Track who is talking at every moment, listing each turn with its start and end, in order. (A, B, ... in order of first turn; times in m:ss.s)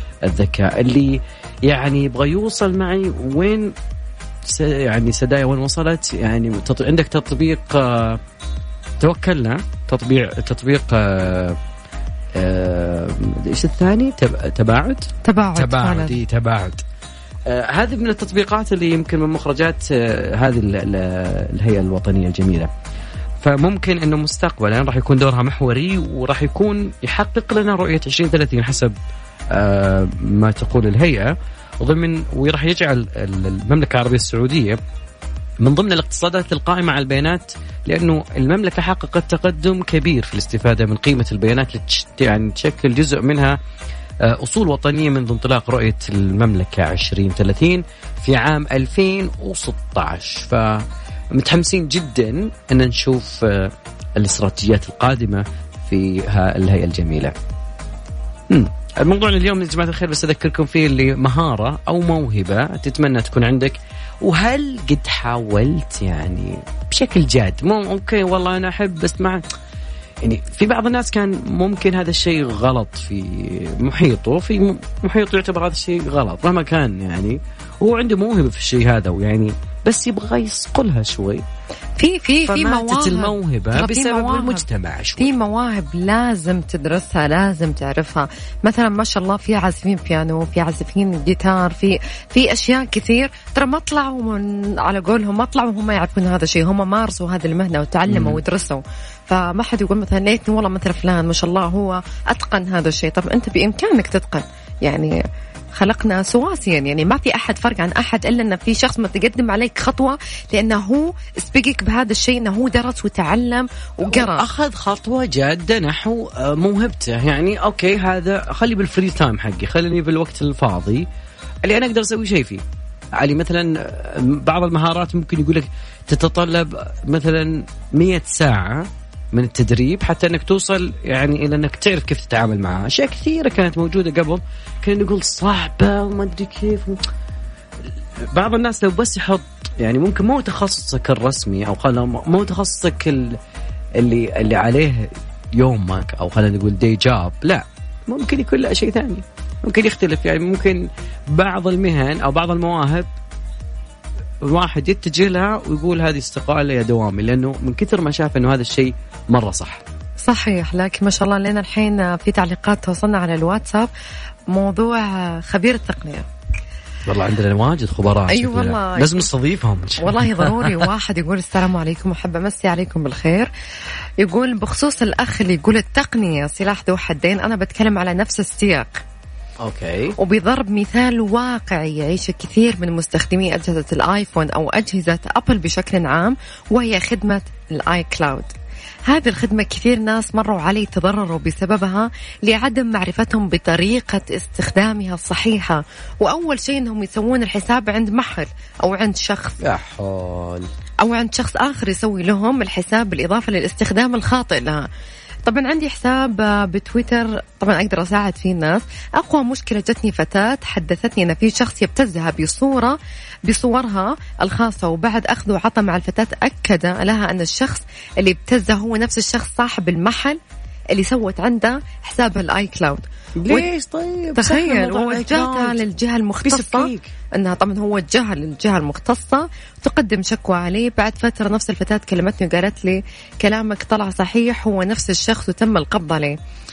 0:00.2-0:03.7 A
0:04.4-0:08.2 A
0:09.0-0:11.6 A
0:12.3-0:16.8 A
0:15.2-0:16.2 B
0:17.4-0:22.7 A
0:23.4-0:28.9 A
0:29.5-0:34.8 A
0:35.6-0:43.6 A
0:44.2-0:57.3 A
0:58.5-1:09.4 A
1:10.2-1:21.4 A
1:22.0-1:24.6 B
1:22.5-1:25.3 A
1:25.2-1:45.2 B
1:38.1-1:38.4 A
1:45.7-1:54.4 B
1:54.1-2:01.1 A
2:01.6-2:02.6 A
2:03.2-2:17.0 A
2:18.3-2:23.4 A
2:24.0-2:33.1 A
2:34.4-2:39.8 A
2:40.2-2:43.9 B
2:44.5-2:46.3 B
2:47.1-2:50.8 A
2:48.3-2:49.3 B
2:50.0-2:53.5 B
2:54.2-2:59.0 B
2:59.6-3:00.1 A
3:00.2-3:08.5 B
3:09.1-3:19.6 B
3:19.6-3:20.7 A
3:21.0-3:24.9 B
3:25.4-3:40.4 B
3:40.9-3:43.7 B
3:43.4-3:45.8 A
3:44.3-3:56.4 B
3:46.4-3:47.1 A